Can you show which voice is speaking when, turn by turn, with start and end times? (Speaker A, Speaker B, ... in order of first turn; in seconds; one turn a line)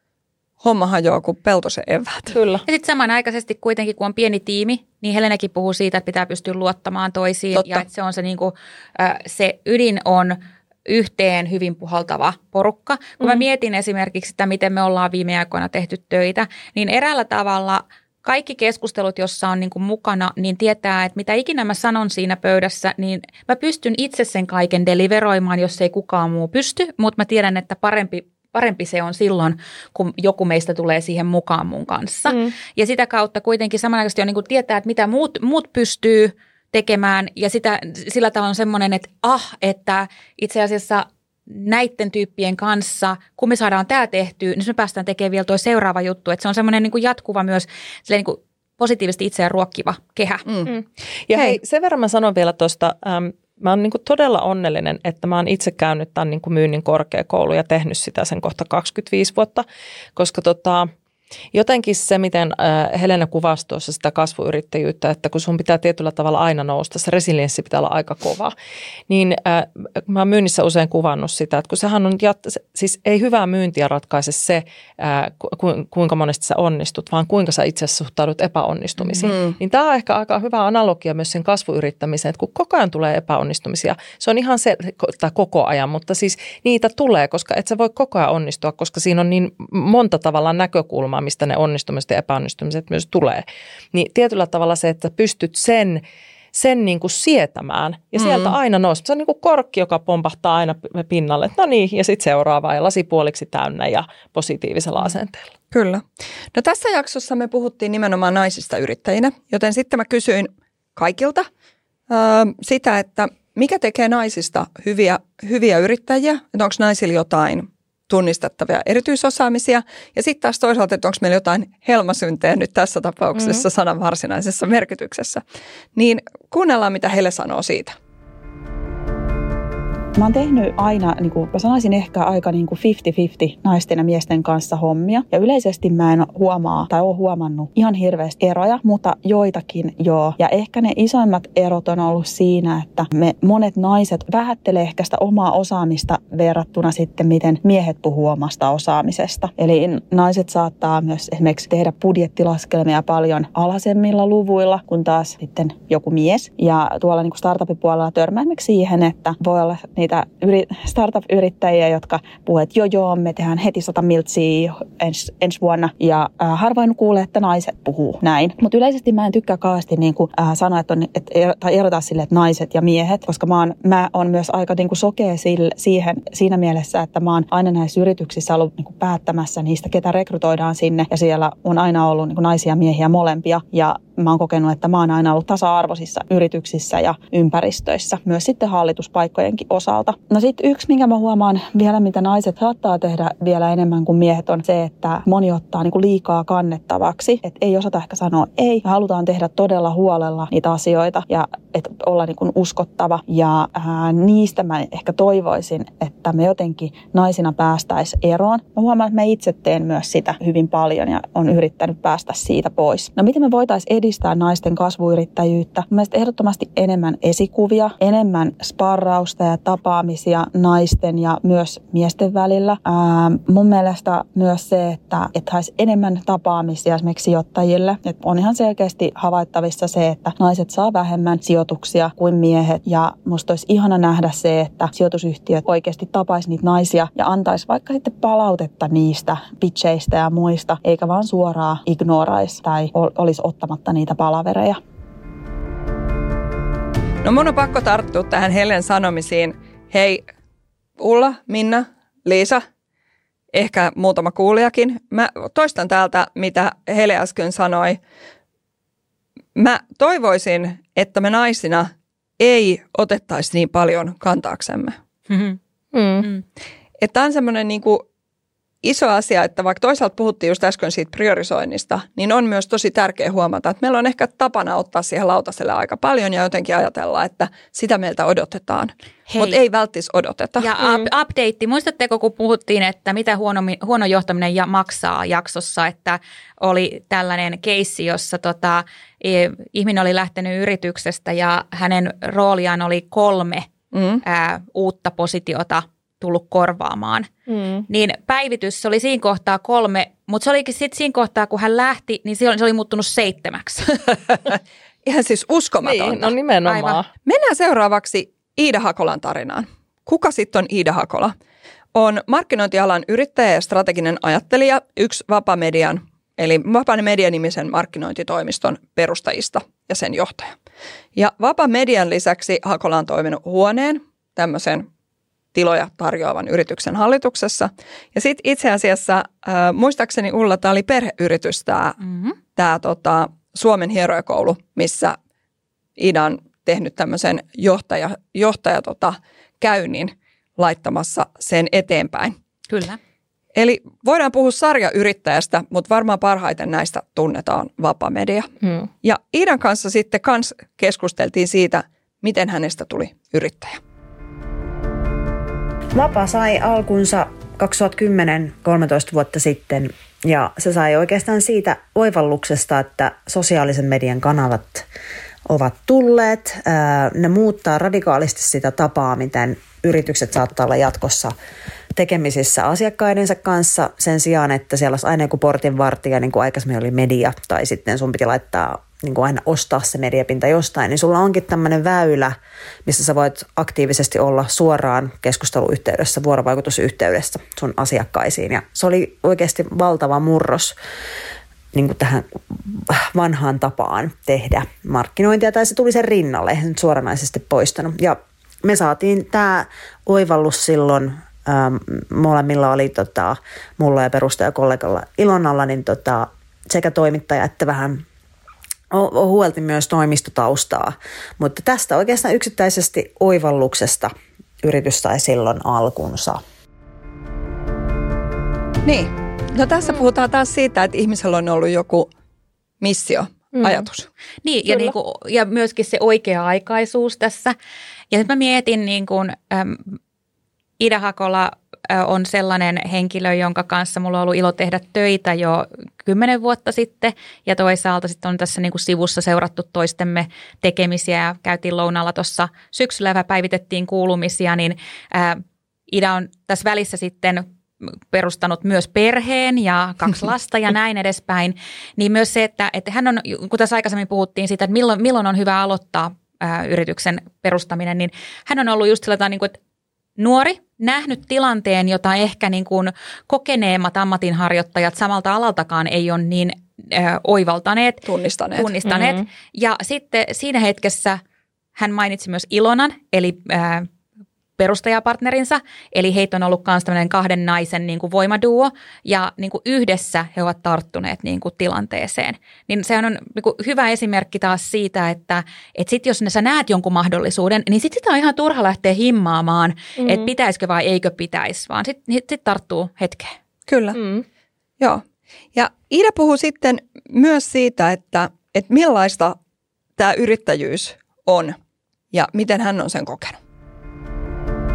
Speaker A: 0.6-2.4
Speaker B: 2.3-2.6
Speaker C: 2.6-50.5
Speaker B: 32.3-32.5
Speaker A: 50.5-50.7
Speaker B: 50.6-59.6
Speaker B: 60.1-60.9
Speaker B: 61.5-68.5
Speaker B: 69.1-105.5
Speaker A: 79.2-79.6
Speaker A: 98.2-98.5
Speaker A: 105.7-111.5
Speaker A: 112.1-125.4
Speaker B: 123.3-123.6
Speaker A: 126.0-128.0
Speaker D: 130.2-244.8
Speaker A: 247.2-250.3
Speaker A: 251.0-252.6
Speaker A: 253.5-258.0
Speaker A: 259.6-264.9
Speaker C: 265.3-265.6
Speaker B: 265.9-266.3
Speaker A: 267.0-268.0
Speaker A: 268.8-280.7
Speaker C: 279.3-279.6
Speaker C: 280.6-293.7
Speaker B: 280.8-281.1
Speaker A: 293.9-294.2
Speaker C: 294.2-297.3
Speaker B: 297.5-297.8
Speaker C: 297.9-304.0
Speaker A: 305.1-306.3
Speaker B: 305.8-307.1
Speaker C: 306.6-307.0
Speaker A: 307.2-311.3
Speaker A: 311.9-320.5
Speaker A: 321.1-324.9
Speaker A: 325.5-332.0
Speaker C: 332.0-332.4
Speaker A: 332.6-335.1
Speaker A: 336.0-342.4
Speaker C: 342.7-343.0
Speaker A: 343.5-348.5
Speaker B: 348.6-348.9
Speaker A: 349.0-353.8
Speaker E: 355.9-364.9
Speaker E: 365.4-371.3
Speaker E: 371.9-382.3
Speaker E: 382.9-390.8
Speaker E: 391.7-408.0
Speaker E: 408.9-416.4
Speaker A: 418.8-422.1
Speaker A: 422.8-424.1
Speaker B: 423.5-423.9
Speaker C: 424.4-427.5
Speaker C: 428.1-430.0
Speaker C: 430.8-459.6
Speaker C: 460.2-471.2
Speaker A: 468.1-468.7
Speaker B: 468.8-469.2
Speaker C: 471.8-473.9
Speaker C: 474.6-493.3
Speaker B: 490.0-490.3
Speaker A: 493.7-494.0
Speaker B: 493.9-494.2
Speaker A: 495.5-499.4
Speaker A: 500.0-501.6
Speaker A: 502.1-503.4